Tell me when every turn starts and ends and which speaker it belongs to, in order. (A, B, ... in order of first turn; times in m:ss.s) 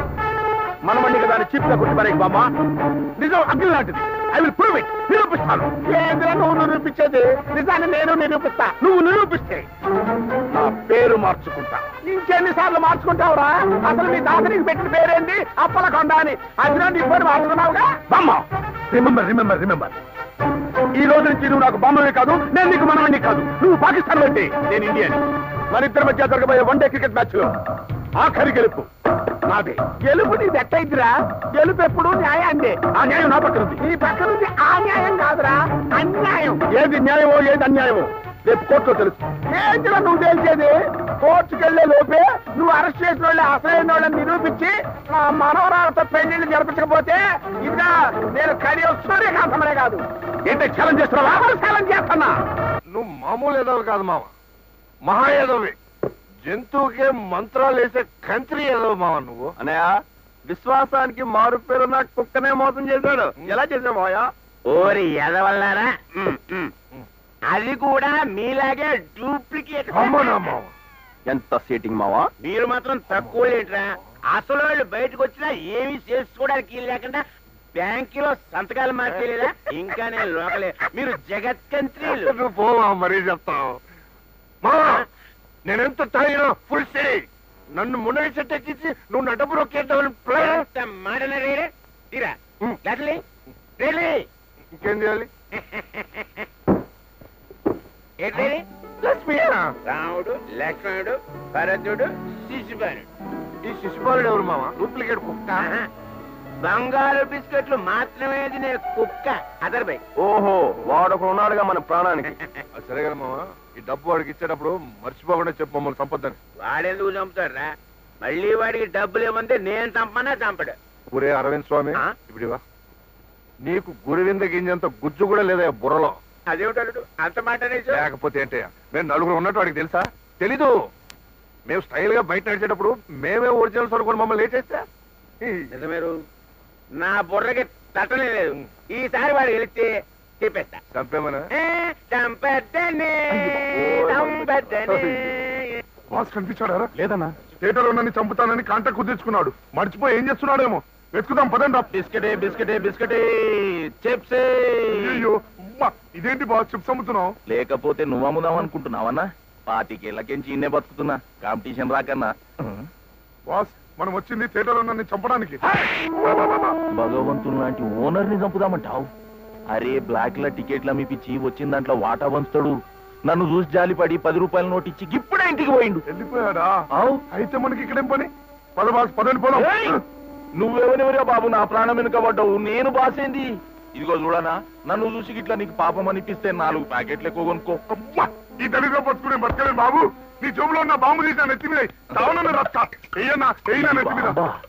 0:00.9-0:02.5 A
0:03.2-0:05.8 A
0:05.8-0:08.8 B
0:08.8-0:09.6 A
0:10.5-0:11.9 A
0:12.0-0:18.0 B
0:18.1-0:18.4 A
0:21.0-0:25.2 A
0:25.7-0:27.5 A
0:28.2-0:28.9 A
0:29.5-0:29.8 A
0:30.1-0:31.1 B
0:31.9-0:32.5 B
0:32.6-0:33.8 A
0:33.8-0:36.6 B
0:36.6-0:39.2 A
0:39.5-0:50.0 B
0:50.5-0:52.3 A
0:52.9-0:54.3 C
0:55.1-0:55.8 C
0:56.4-0:59.5 C
0:59.6-0:59.9 D
1:00.5-1:04.3 D
1:04.7-1:06.7 E
1:07.5-1:10.4 E
1:09.9-1:10.7 C
1:11.3-1:12.3 D
1:12.4-1:17.2 E
1:17.8-1:22.4 E
1:22.0-1:23.8 C
1:24.6-1:25.0 C
1:25.7-1:27.2 C
1:27.8-1:30.6 C
1:30.3-1:33.2 E
1:33.8-1:34.2 E
1:34.7-1:35.3 C
1:35.7-1:36.0 E
1:38.2-1:38.6 E
1:39.9-1:43.1 E
1:43.6-1:44.8 C
1:45.6-1:45.9 E
1:46.6-1:50.0 E
1:50.2-1:52.3 D
1:52.8-1:56.4 C
1:56.6-1:57.7 E
1:58.2-2:00.8 E
2:01.1-2:02.6 C
2:03.6-2:06.2 C
2:06.5-2:08.0 E
2:07.9-2:10.7 C
2:11.7-2:14.8 C
2:15.7-2:16.2 E
2:17.0-2:20.8 E
2:20.9-2:21.4 C
2:21.5-2:25.8 E
2:23.8-2:24.9 F
2:24.9-2:25.2 C
2:26.1-2:26.9 C
2:27.6-2:31.9 C
2:31.9-2:35.2 F
2:34.9-2:37.3 C
2:37.5-2:42.9 F
2:43.5-2:45.6 C
2:46.3-2:46.7 C
2:47.0-2:49.1 F
2:49.7-2:52.8 F
2:53.3-2:56.0 F
2:56.1-3:00.0 C
2:59.5-3:00.0 F
3:00.6-3:08.0 F
3:08.6-3:14.4 C
3:12.1-3:12.5 F
3:13.7-3:14.5 F